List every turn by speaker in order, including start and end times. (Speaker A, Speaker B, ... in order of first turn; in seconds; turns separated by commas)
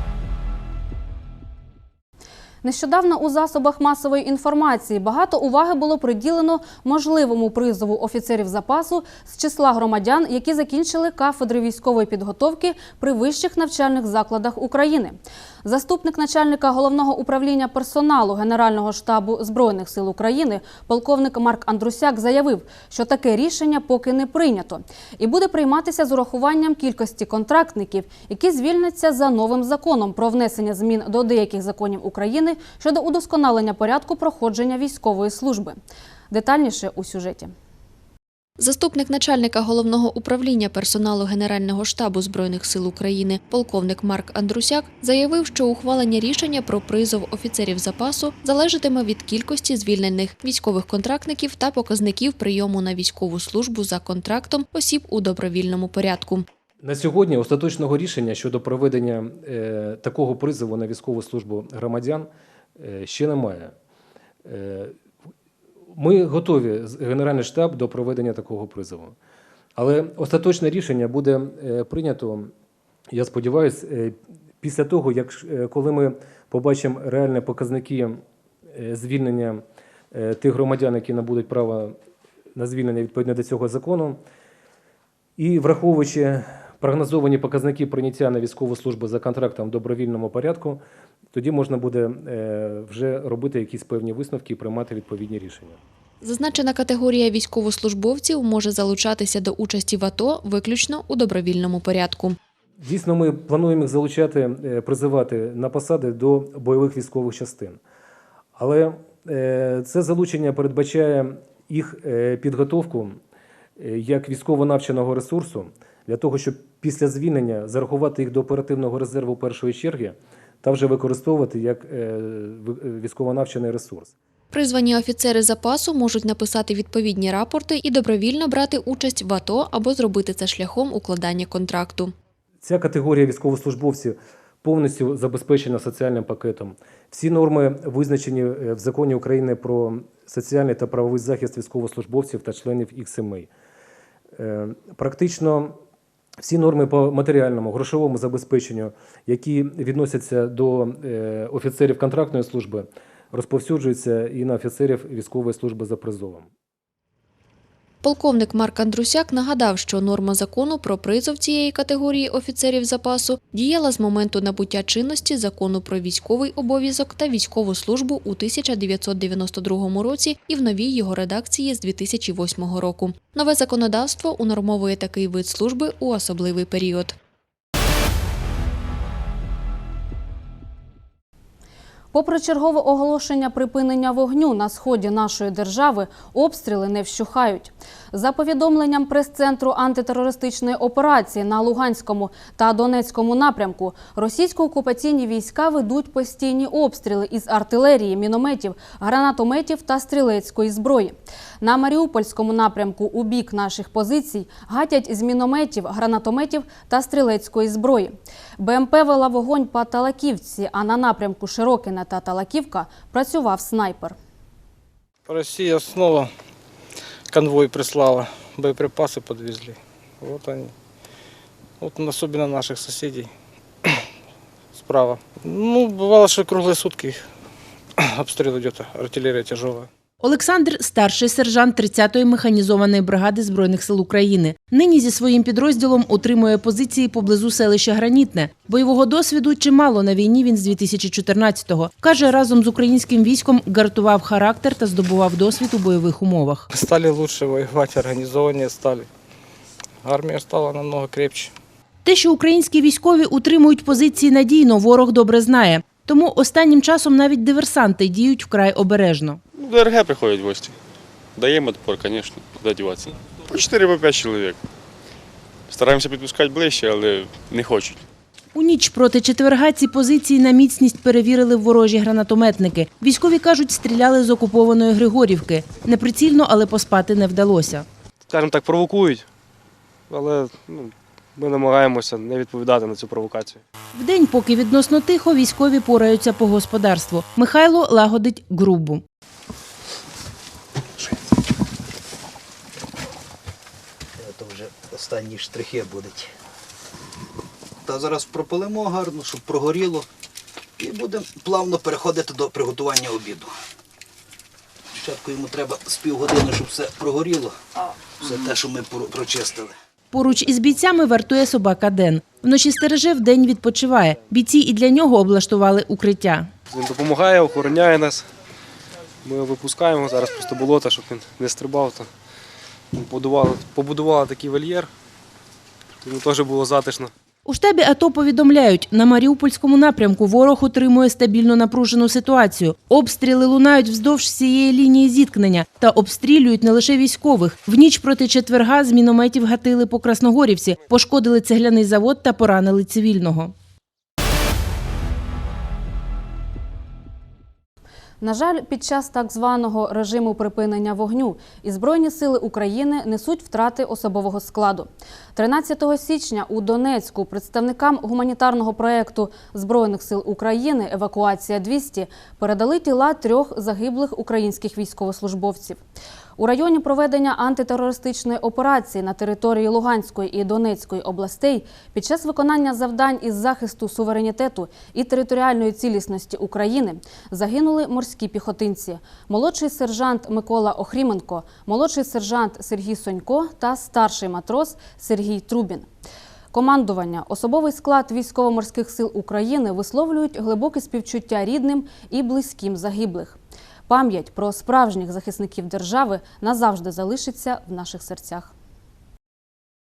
Speaker A: 2.6-35.8, Speaker A: 36.3-37.5, Speaker B: 38.6-56.5, Speaker C: 56.8-63.7, Speaker C: 64.5-65.0, Speaker C: 65.9-69.2, Speaker C: 69.8-72.5, Speaker C: 73.1-78.2, Speaker C: 78.7-82.0, Speaker C: 82.5-84.2, Speaker C: 85.4-90.8, Speaker C: 91.3-95.8, Speaker B: 96.2-102.4, Speaker C: 102.8-107.8, Speaker C: 108.6-113.2, Speaker C: 113.8-124.2, Speaker B: 124.5-132.1, Speaker C: 132.6-143.5, Speaker C: 144.4-145.8, Speaker C: 146.4-156.5, Speaker B: 158.0-177.2, Speaker A: 182.1-214.2, Speaker D: 215.3-216.3, Speaker D: 217.3-220.7, Speaker D: 221.8-223.3, Speaker D: 224.8-227.3, Speaker D: 228.0-229.9, Speaker E: 230.2-246.7, Speaker D: 246.7-249.1, Speaker D: 250.0-251.5, Speaker E: 252.1-259.4, Speaker F: 259.6-260.7, Speaker F: 261.4-264.6, Speaker F: 265.7-268.0, Speaker E: 268.6-277.9, Speaker G: 278.3-279.2, Speaker G: 280.1-283.6, Speaker E: 283.9-289.0, Speaker H: 294.2-296.3, Speaker H: 297.9-300.1, Speaker H: 300.8-303.5, Speaker H: 305.0-307.6, Speaker H: 308.2-309.7, Speaker E: 310.1-316.5, Speaker G: 316.7-318.2, Speaker G: 319.2-322.0, Speaker G: 322.9-324.9, Speaker G: 326.1-327.1, Speaker E: 327.4-343.5, Speaker A: 348.2-365.8, Speaker A: 366.4-385.9, Speaker A: 386.5-398.5